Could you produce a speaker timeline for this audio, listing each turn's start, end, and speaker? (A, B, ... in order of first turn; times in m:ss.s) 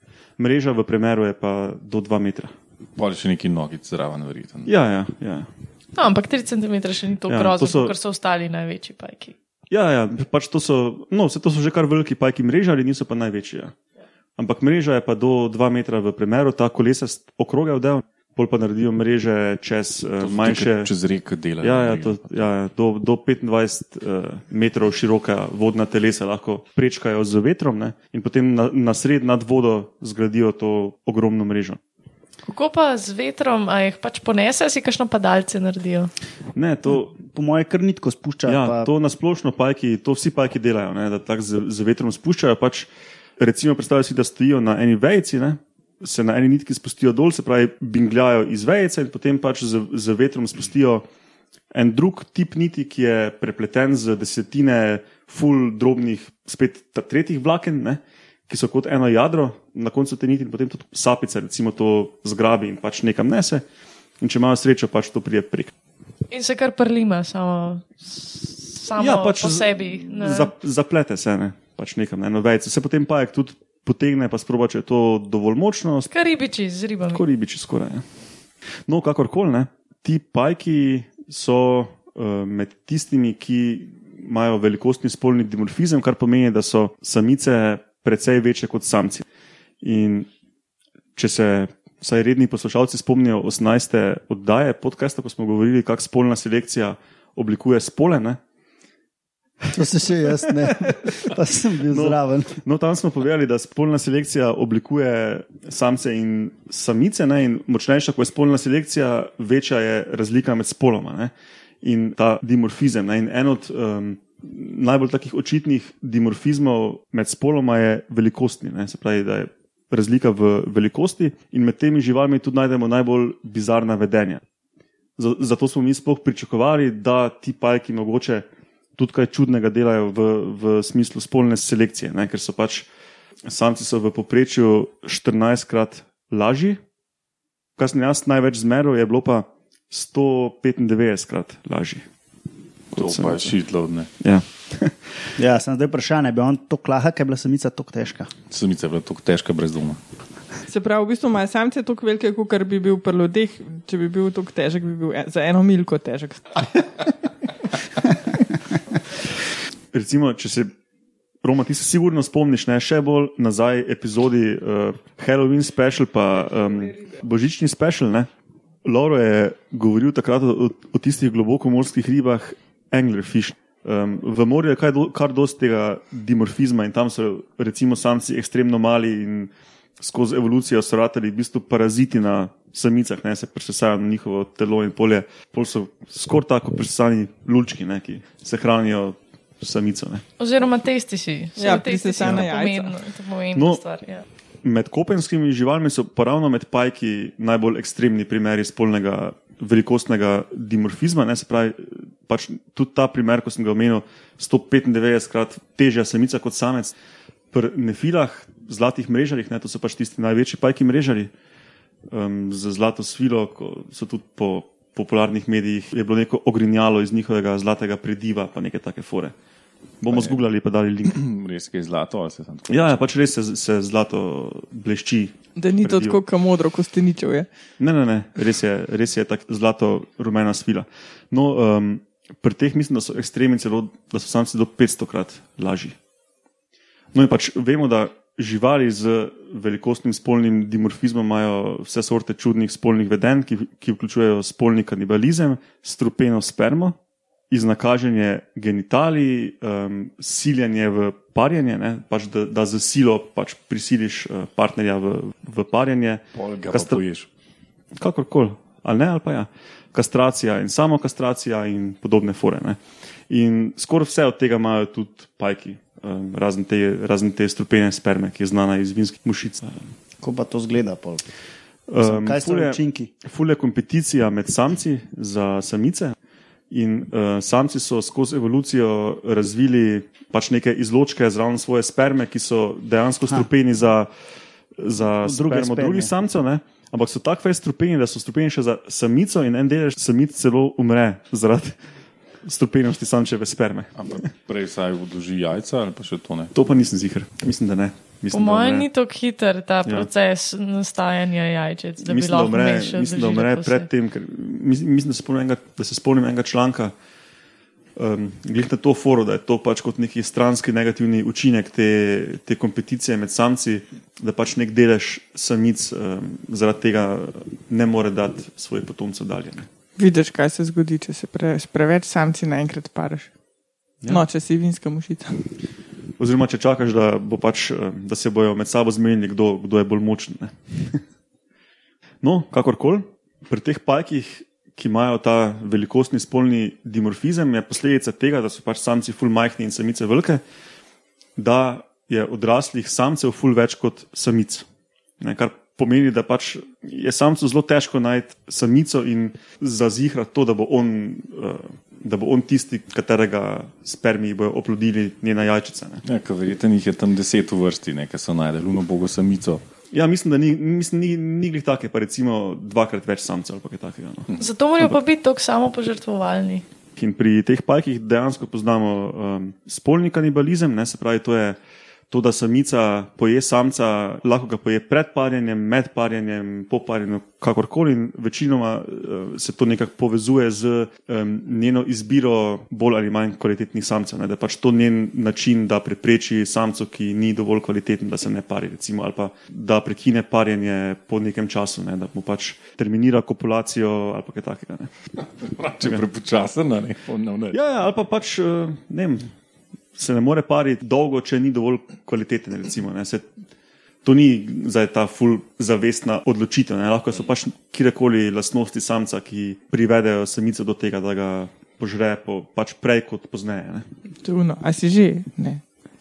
0:00.4-0:02.5 A
0:03.0-0:04.7 B
0:04.6-0:05.5 A
0:05.9-0:09.3 C
0:07.3-0:07.9 A
0:09.7-0:13.7 A
0:14.4-0:20.9 A
0:20.2-0:22.5 B
0:21.6-0:31.8 A
0:32.4-0:36.1 C
0:36.5-0:37.1 A
0:36.9-0:38.9 D
0:38.5-0:51.0 A
0:51.7-1:03.6 A
1:04.2-1:05.7 A
1:06.3-1:10.5 C
1:09.0-1:16.1 A
1:16.1-1:17.2 C
1:17.1-1:18.0 A
1:18.9-1:29.2 A
1:29.8-1:30.3 A
1:31.2-1:38.4 A
1:39.6-1:41.3 A
1:39.7-1:42.6 D
1:41.8-2:04.4 A
2:05.2-2:08.4 A
2:09.0-2:12.9 A
2:13.5-2:16.8 A
2:17.8-2:22.0 A
2:22.9-2:23.6 A
2:22.9-2:24.1 B
2:24.2-2:25.3 A
2:25.4-2:28.3 D
2:28.5-2:30.0 B
2:30.6-2:36.8 E
2:39.9-2:40.7 A
2:41.4-2:48.3 A
2:48.8-3:10.2 A
3:10.4-3:14.2 C
3:11.6-3:12.9 E
3:12.2-3:12.5 A
3:13.5-3:13.8 A
3:14.6-3:26.9 A
3:27.5-3:31.3 A
3:32.1-3:39.3 A
3:40.0-3:41.1 A
3:40.1-3:40.4 B
3:41.1-3:43.0 B
3:42.7-3:46.2 A
3:45.6-3:47.5 E
3:47.8-3:56.0 A
3:57.1-4:06.9 A
4:07.5-4:17.0 A
4:16.3-4:17.3 B
4:18.0-4:22.8 A
4:23.3-4:29.8 A
4:30.2-4:31.2 D
4:31.9-4:36.1 A
4:32.0-4:33.1 D
4:36.7-4:44.1 A
4:44.8-4:51.8 A
4:45.2-4:46.1 D
4:52.4-4:53.9 A
4:53.9-4:56.5 B
4:56.5-4:58.9 A
4:58.3-5:03.9 C
5:02.0-5:06.9 A
5:08.0-5:19.7 A
5:20.0-5:23.3 E
5:24.1-5:25.5 E
5:26.2-5:31.0 A
5:32.2-5:40.4 A
5:41.4-5:44.6 A
5:45.2-5:56.0 A
5:56.0-5:59.6 B
5:59.9-6:05.0 A
6:04.4-6:06.6 C
6:07.0-6:11.6 A
6:12.1-6:34.9 A
6:35.2-6:37.6 B
6:35.8-6:36.0 A
6:37.5-6:39.3 A
6:40.0-6:43.3 A
6:44.0-6:53.8 A
6:54.2-6:55.6 E